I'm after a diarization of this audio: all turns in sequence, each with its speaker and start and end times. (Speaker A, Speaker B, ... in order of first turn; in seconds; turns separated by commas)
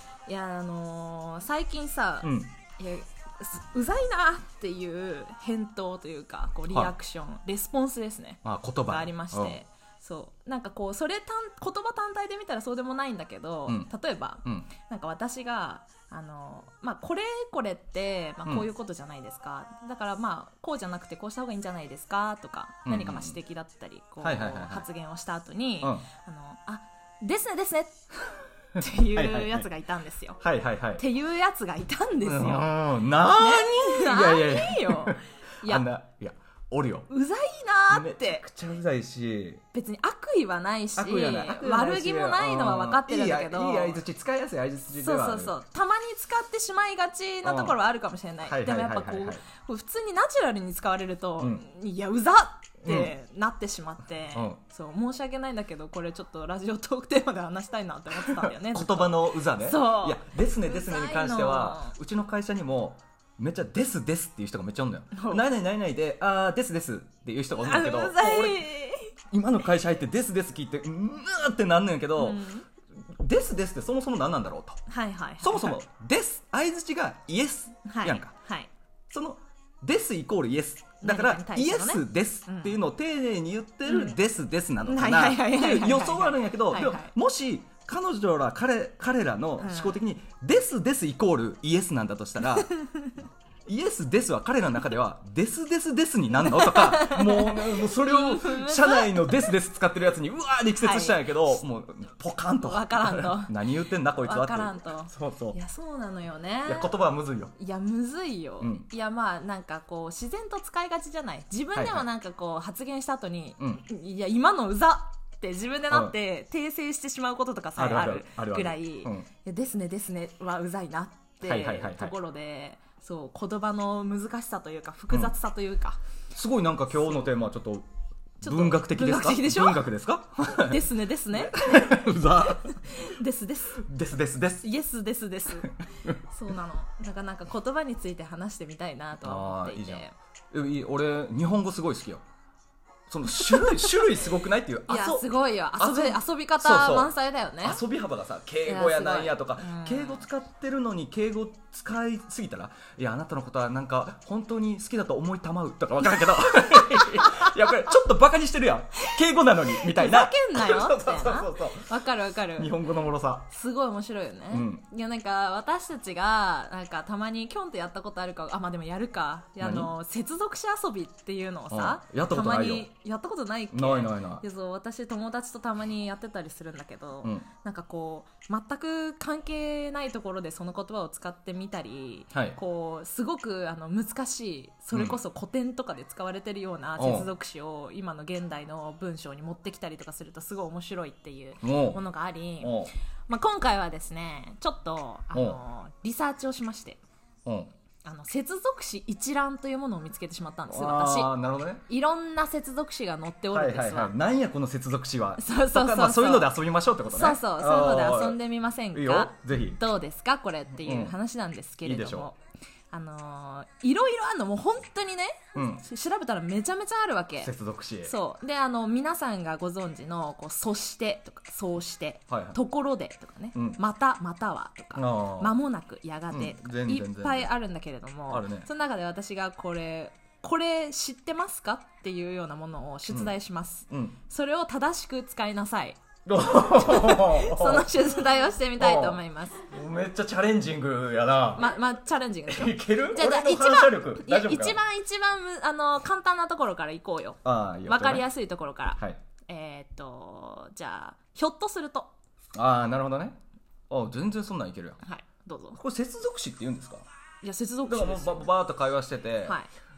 Speaker A: 0.3-28.1, Speaker B: 2.2-2.5, Speaker B: 8.4-9.6, Speaker B: 14.4-14.7, Speaker B: 22.9-23.4, Speaker B: 24.2-24.9, Speaker B: 25.8-26.1, Speaker A: 28.8-30.4, Speaker B: 29.1-29.7, Speaker B: 30.4-31.1, Speaker A: 31.0-32.7, Speaker B: 32.2-37.1, Speaker A: 33.4-35.9, Speaker A: 37.1-38.4, Speaker B: 37.9-39.6, Speaker A: 39.7-44.0, Speaker B: 41.0-45.5, Speaker A: 44.9-61.9, Speaker B: 47.4-47.8, Speaker B: 48.5-49.4, Speaker B: 52.8-53.1, Speaker B: 54.3-54.6, Speaker B: 58.5-68.7, Speaker A: 65.1-65.4, Speaker A: 67.6-69.1, Speaker B: 69.3-72.4, Speaker A: 72.2-72.7, Speaker B: 73.1-74.8, Speaker A: 74.9-75.8, Speaker B: 75.4-78.3, Speaker A: 77.9-78.7, Speaker B: 79.1-92.7, Speaker A: 81.0-82.8, Speaker A: 83.8-84.2, Speaker A: 84.8-87.1, Speaker A: 89.6-90.0, Speaker A: 92.7-93.2, Speaker B: 93.7-105.6, Speaker A: 96.4-99.5, Speaker A: 100.8-101.3, Speaker A: 102.6-103.6, Speaker A: 104.2-106.9, Speaker B: 106.7-107.5, Speaker A: 107.5-126.0, Speaker B: 108.6-108.9, Speaker B: 111.8-112.1, Speaker B: 113.6-113.8, Speaker B: 115.9-116.2, Speaker B: 117.8-119.3, Speaker B: 121.5-122.2, Speaker B: 126.3-127.9, Speaker B: 128.4-132.8, Speaker A: 128.4-129.8, Speaker A: 130.6-133.8, Speaker B: 133.8-134.7, Speaker A: 134.6-135.8, Speaker B: 135.6-136.2, Speaker A: 136.3-140.2, Speaker B: 139.2-142.2, Speaker B: 143.1-161.9, Speaker A: 143.4-143.8, Speaker A: 144.9-147.8, Speaker A: 148.7-150.2, Speaker A: 157.2-157.4, Speaker A: 159.8-162.7, Speaker B: 162.6-163.5, Speaker A: 163.5-192.8, Speaker B: 164.5-164.8, Speaker B: 169.6-169.9, Speaker B: 171.7-172.9, Speaker B: 173.7-174.4, Speaker B: 184.9-185.2, Speaker B: 187.0-187.3, Speaker B: 191.6-192.0, Speaker B: 192.6-192.9, Speaker A: 193.3-197.0, Speaker B: 195.3-195.6, Speaker B: 197.4-197.7, Speaker A: 198.0-201.3, Speaker B: 200.7-201.8, Speaker A: 201.9-204.1, Speaker B: 203.5-208.4, Speaker A: 205.4-206.5, Speaker A: 207.1-212.4, Speaker B: 208.9-209.8, Speaker B: 210.8-211.2, Speaker B: 211.8-212.3, Speaker A: 212.9-217.5, Speaker B: 215.6-215.8, Speaker B: 217.4-218.1, Speaker A: 218.0-239.7, Speaker B: 222.3-222.6, Speaker B: 224.9-225.5, Speaker B: 226.3-227.5, Speaker B: 228.3-228.7, Speaker B: 233.1-233.3, Speaker B: 233.9-234.2, Speaker B: 236.3-238.1, Speaker B: 238.8-241.7, Speaker A: 241.6-252.1, Speaker B: 242.5-244.8, Speaker B: 247.4-248.3, Speaker B: 252.6-253.4, Speaker B: 253.9-255.0, Speaker A: 255.0-255.8, Speaker B: 255.8-257.1, Speaker A: 257.4-258.4, Speaker B: 257.9-259.6